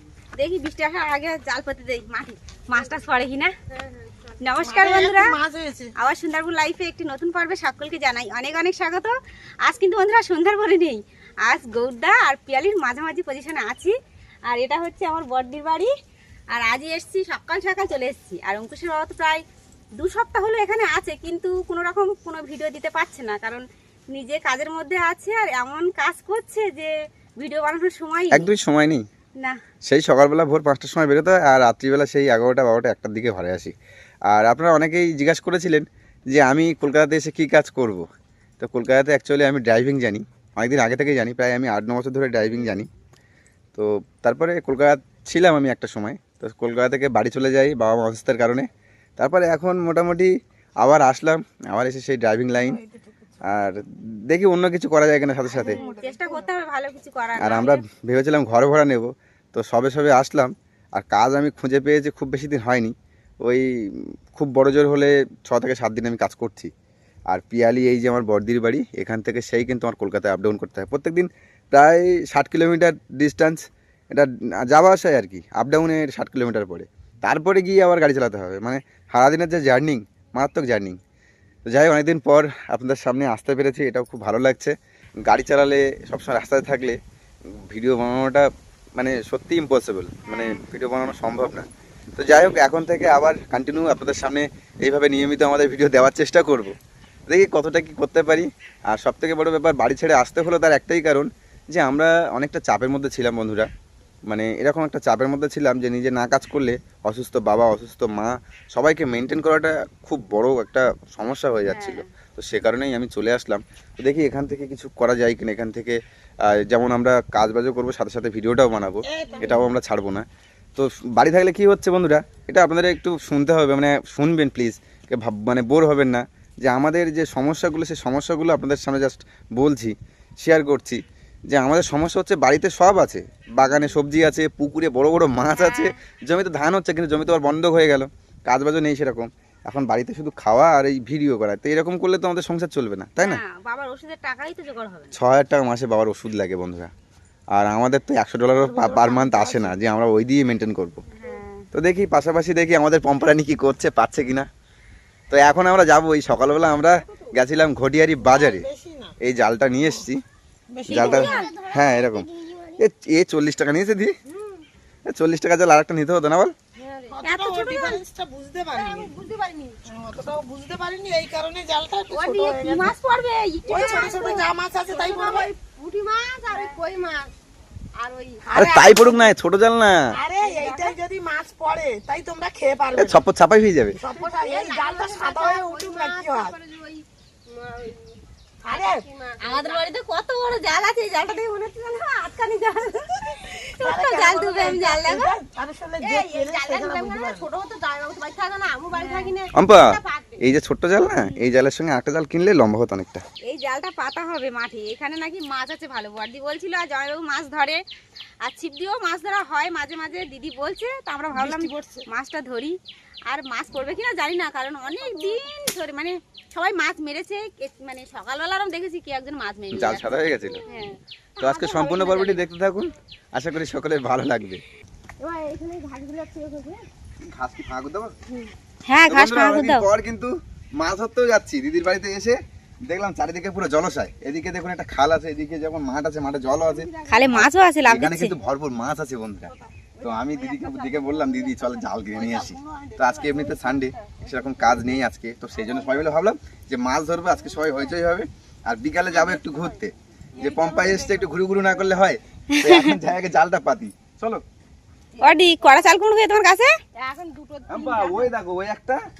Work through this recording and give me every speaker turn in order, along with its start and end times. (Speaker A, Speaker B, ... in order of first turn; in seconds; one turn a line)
Speaker A: 0.4-3.5
Speaker B: 3.7-4.1
Speaker A: 4.4-5.3
Speaker C: 4.6-5.9
Speaker A: 6.0-13.9
Speaker A: 14.5-15.9
Speaker A: 16.5-19.4
Speaker A: 20.0-28.5
Speaker D: 28.3-29.0
Speaker D: 29.9-33.7
Speaker D: 34.3-38.0
Speaker D: 38.6-42.9
Speaker D: 43.7-48.7
Speaker D: 49.2-52.8
Speaker C: 52.6-53.4
Speaker D: 53.4-55.8
Speaker C: 55.5-56.5
Speaker A: 55.6-57.8
Speaker D: 57.4-66.7
Speaker D: 67.3-81.0
Speaker D: 81.7-84.7
Speaker D: 85.2-87.0
Speaker D: 87.5-96.7
Speaker A: 90.2-90.6
Speaker D: 97.3-103.7
Speaker D: 104.3-120.2
Speaker A: 111.7-112.1
Speaker C: 119.0-119.6
Speaker D: 120.8-143.4
Speaker A: 135.5-135.9
Speaker A: 143.2-145.1
Speaker D: 145.1-146.9
Speaker D: 147.5-151.0
Speaker C: 148.6-149.8
Speaker A: 151.1-151.7
Speaker D: 151.7-154.5
Speaker D: 155.3-158.7
Speaker C: 158.2-159.1
Speaker D: 159.2-160.2
Speaker C: 160.7-161.3
Speaker A: 160.9-161.5
Speaker D: 160.9-164.1
Speaker B: 161.3-162.8
Speaker B: 164.3-164.6
Speaker D: 165.1-166.5
Speaker B: 166.8-167.1
Speaker C: 167.1-169.1
Speaker A: 167.2-168.0
Speaker B: 168.7-169.8
Speaker C: 169.8-172.9
Speaker A: 172.1-174.4
Speaker C: 173.7-175.5
Speaker B: 173.7-177.3
Speaker B: 178.0-178.4
Speaker C: 178.4-179.3
Speaker D: 178.5-180.1
Speaker C: 180.1-183.2
Speaker D: 182.9-183.9
Speaker C: 184.0-186.6
Speaker B: 184.1-188.1
Speaker C: 188.6-189.1
Speaker B: 188.7-189.8
Speaker A: 189.4-195.3
Speaker C: 193.8-197.5
Speaker B: 196.0-200.4
Speaker A: 198.9-199.3
Speaker D: 199.5-203.2
Speaker A: 201.1-201.4
Speaker A: 203.4-207.8
Speaker A: 208.4-212.8
Speaker C: 211.3-212.0
Speaker A: 213.3-222.4
Speaker D: 219.7-220.6
Speaker D: 221.4-224.6
Speaker B: 225.2-226.8
Speaker D: 227.2-228.2
Speaker A: 228.9-229.8
Speaker D: 229.1-254.4
Speaker A: 237.1-238.3
Speaker C: 239.5-243.9
Speaker B: 249.1-249.6
Speaker C: 250.3-251.3
Speaker A: 252.5-252.9
Speaker A: 255.2-256.7
Speaker B: 256.9-258.3
Speaker D: 257.7-259.0